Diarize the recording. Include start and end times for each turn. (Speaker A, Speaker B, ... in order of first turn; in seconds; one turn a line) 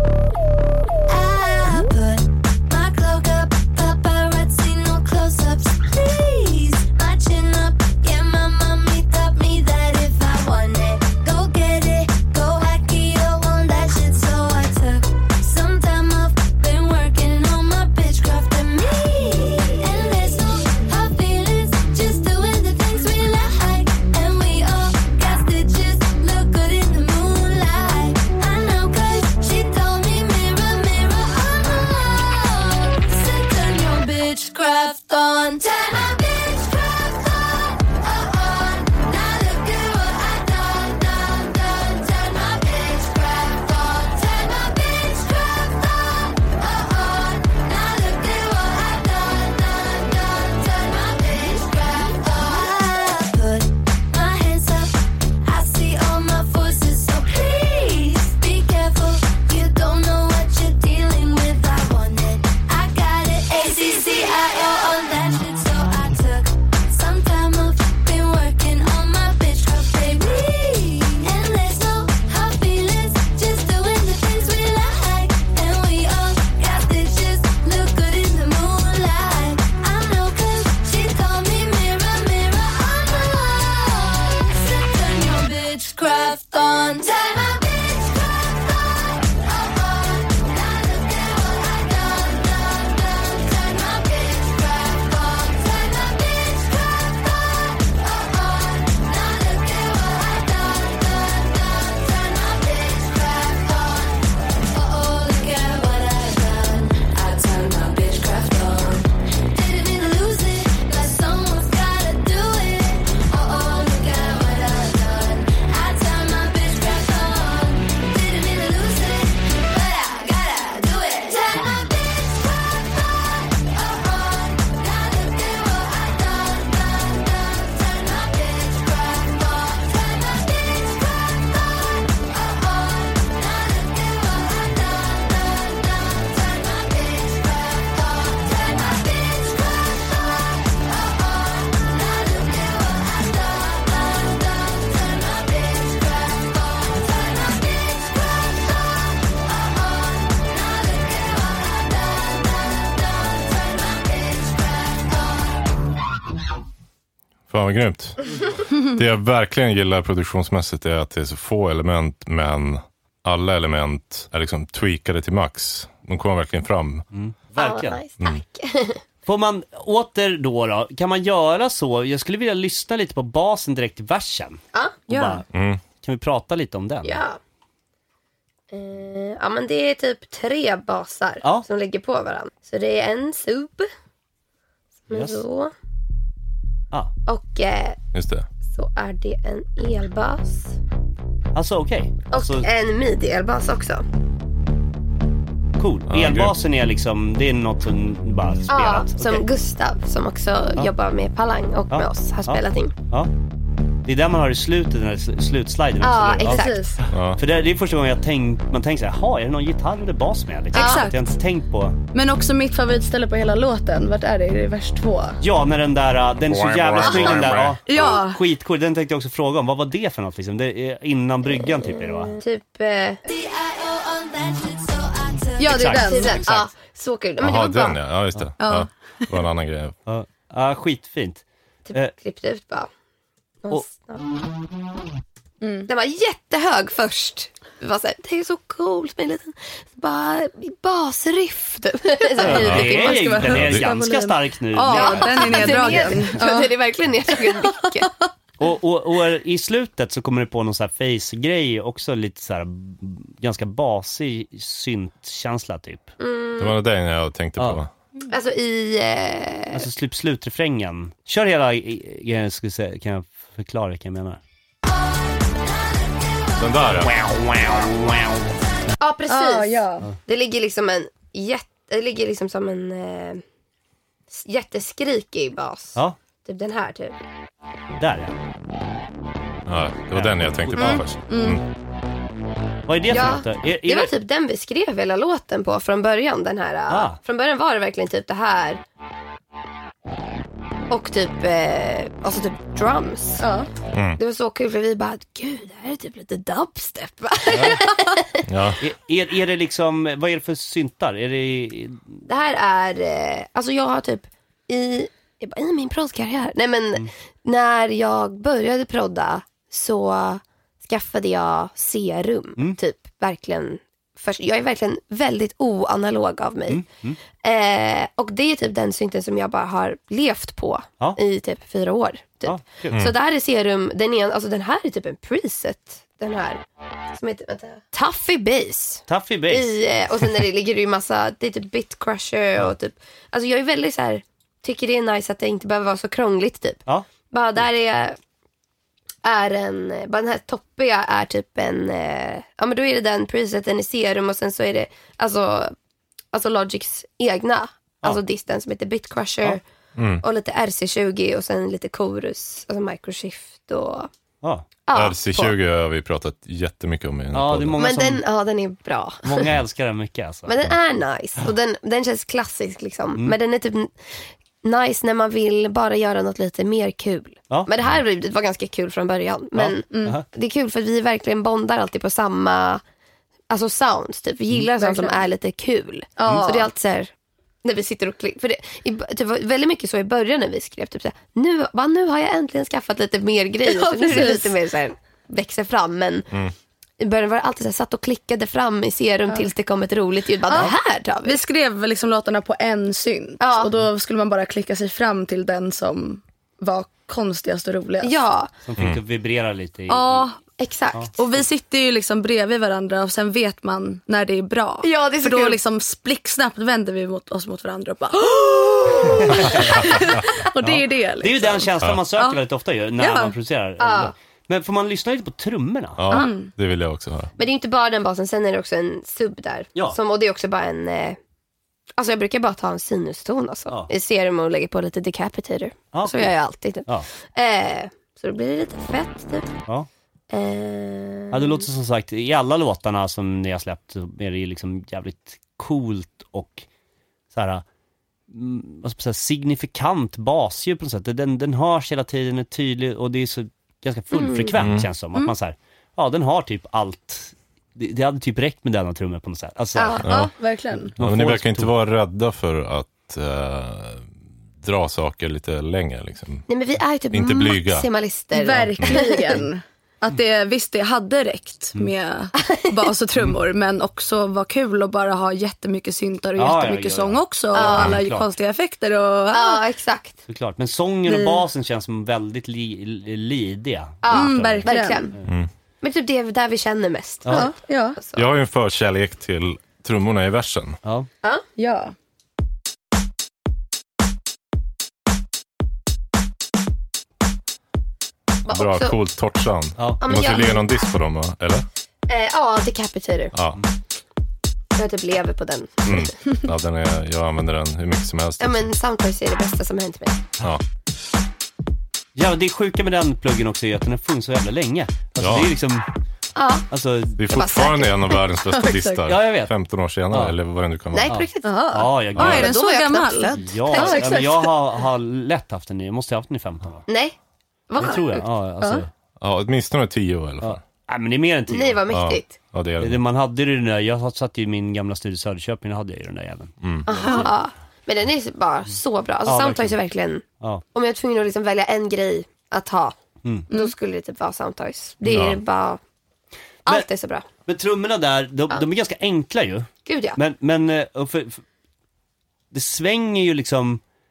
Speaker A: 1.1-155.7
Speaker B: 157.5-167.1
Speaker C: 167.1-168.0
Speaker D: 167.6-169.0
Speaker C: 169.2-177.2
Speaker D: 174.7-175.0
Speaker E: 175.1-175.4
Speaker B: 175.5-175.8
Speaker D: 177.0-177.4
Speaker D: 178.7-183.9
Speaker D: 185.1-185.7
Speaker C: 185.1-185.4
Speaker D: 187.3-188.0
Speaker B: 188.1-188.5
Speaker D: 188.7-190.8
Speaker C: 191.6-192.7
Speaker D: 192.3-194.0
Speaker C: 195.8-199.4
Speaker B: 196.1-196.6
Speaker D: 198.7-202.9
Speaker C: 201.9-203.3
Speaker C: 204.1-212.0
Speaker D: 206.0-207.0
Speaker E: 206.4-207.0
Speaker B: 207.1-207.4
Speaker D: 210.7-211.1
Speaker E: 210.7-211.2
Speaker E: 212.1-215.4
Speaker C: 215.4-222.3
Speaker B: 216.8-217.8
Speaker E: 217.1-218.4
Speaker D: 222.3-223.2
Speaker A: 223.2-226.1
Speaker E: 225.6-226.4
Speaker C: 225.7-226.7
Speaker D: 225.8-228.0
Speaker B: 227.4-229.9
Speaker E: 228.6-229.2
Speaker C: 230.1-232.1
Speaker D: 231.9-232.9
Speaker D: 233.6-234.2
Speaker E: 235.6-235.9
Speaker D: 235.9-243.5
Speaker E: 242.4-246.8
Speaker C: 242.4-246.4
Speaker B: 242.5-243.9
Speaker D: 244.9-248.1
Speaker E: 247.3-247.7
Speaker C: 248.6-256.1
Speaker D: 256.2-256.8
Speaker B: 256.6-257.9
Speaker D: 258.3-259.9
Speaker C: 259.7-264.4
Speaker B: 266.6-267.1
Speaker C: 267.0-268.5
Speaker D: 269.0-273.4
Speaker E: 269.3-270.1
Speaker D: 274.3-277.2
Speaker C: 278.0-278.4
Speaker B: 279.7-281.6
Speaker C: 280.1-281.0
Speaker D: 280.8-281.0
Speaker E: 281.3-281.6
Speaker C: 282.9-284.1
Speaker D: 283.1-288.8
Speaker C: 286.9-287.2
Speaker D: 290.9-293.5
Speaker E: 293.4-293.7
Speaker B: 293.9-294.2
Speaker D: 294.2-298.4
Speaker C: 297.5-297.8
Speaker B: 298.5-298.8
Speaker C: 298.8-302.2
Speaker D: 302.3-316.8
Speaker C: 316.7-317.2
Speaker D: 317.4-338.2
Speaker C: 322.4-323.0
Speaker C: 329.1-329.7
Speaker D: 339.2-345.8
Speaker D: 346.3-349.6
Speaker B: 350.0-350.2
Speaker D: 350.2-354.1
Speaker C: 354.4-354.7
Speaker D: 354.9-355.6
Speaker B: 354.9-357.8
Speaker C: 357.3-358.2
Speaker D: 357.8-359.5
Speaker C: 359.2-360.6
Speaker D: 360.5-372.8
Speaker C: 369.6-370.2
Speaker E: 369.9-370.2
Speaker D: 373.5-377.1
Speaker E: 374.8-375.2
Speaker E: 376.2-376.7
Speaker D: 377.6-386.3
Speaker E: 383.7-384.5
Speaker D: 387.0-391.4
Speaker E: 390.5-398.1
Speaker D: 393.4-393.7
Speaker D: 398.0-398.5
Speaker C: 398.6-400.3
Speaker E: 399.9-400.4
Speaker D: 400.6-401.1
Speaker E: 401.2-412.4
Speaker D: 404.8-405.6
Speaker C: 409.2-409.8
Speaker C: 410.6-416.2
Speaker E: 413.0-413.3
Speaker D: 413.8-414.1
Speaker B: 416.0-417.3
Speaker E: 416.1-416.5
Speaker D: 417.4-421.2
Speaker D: 422.0-429.5
Speaker C: 425.9-426.3
Speaker D: 430.3-431.7
Speaker C: 431.3-436.7
Speaker C: 437.3-437.6
Speaker C: 438.3-450.0
Speaker D: 444.1-444.6
Speaker B: 444.6-444.9
Speaker D: 449.8-450.1
Speaker B: 450.0-450.3
Speaker E: 450.1-450.9
Speaker C: 451.0-451.7
Speaker B: 451.0-456.5
Speaker D: 456.5-459.4
Speaker B: 457.1-457.9
Speaker E: 458.3-469.6
Speaker B: 458.8-459.1
Speaker C: 466.4-468.3
Speaker D: 467.5-468.0
Speaker D: 469.3-470.2
Speaker C: 470.3-475.3
Speaker E: 471.1-471.4
Speaker D: 474.0-475.1
Speaker E: 474.1-475.1
Speaker D: 475.8-478.3
Speaker C: 477.2-477.5
Speaker E: 477.3-478.0
Speaker B: 478.1-480.8
Speaker C: 480.8-481.1
Speaker E: 481.6-481.9
Speaker D: 488.4-489.0
Speaker B: 488.5-491.6
Speaker C: 489.8-490.0
Speaker D: 490.0-490.6
Speaker D: 492.1-493.3
Speaker B: 493.3-493.6
Speaker D: 494.8-496.1
Speaker B: 495.9-498.7
Speaker D: 498.4-500.2
Speaker C: 502.1-505.9
Speaker B: 505.2-505.5
Speaker D: 506.4-506.7
Speaker C: 506.7-507.2
Speaker B: 507.2-511.2
Speaker D: 507.3-508.2
Speaker E: 508.6-509.0
Speaker C: 509.1-509.5
Speaker C: 510.1-510.4
Speaker D: 510.9-514.5
Speaker C: 511.1-512.5
Speaker E: 511.4-514.5
Speaker B: 512.2-512.5
Speaker C: 513.3-516.9
Speaker D: 516.9-517.2
Speaker D: 517.7-518.2
Speaker E: 517.8-518.8
Speaker C: 517.8-518.9
Speaker B: 519.2-520.6
Speaker C: 520.4-521.8
Speaker D: 521.5-522.4
Speaker B: 521.9-523.0
Speaker C: 522.8-526.6
Speaker B: 526.6-527.1
Speaker D: 526.9-533.0
Speaker C: 529.3-529.8
Speaker D: 533.5-535.8
Speaker B: 535.1-535.4
Speaker D: 536.7-537.2
Speaker C: 537.5-541.4
Speaker D: 539.9-540.2
Speaker C: 542.5-543.8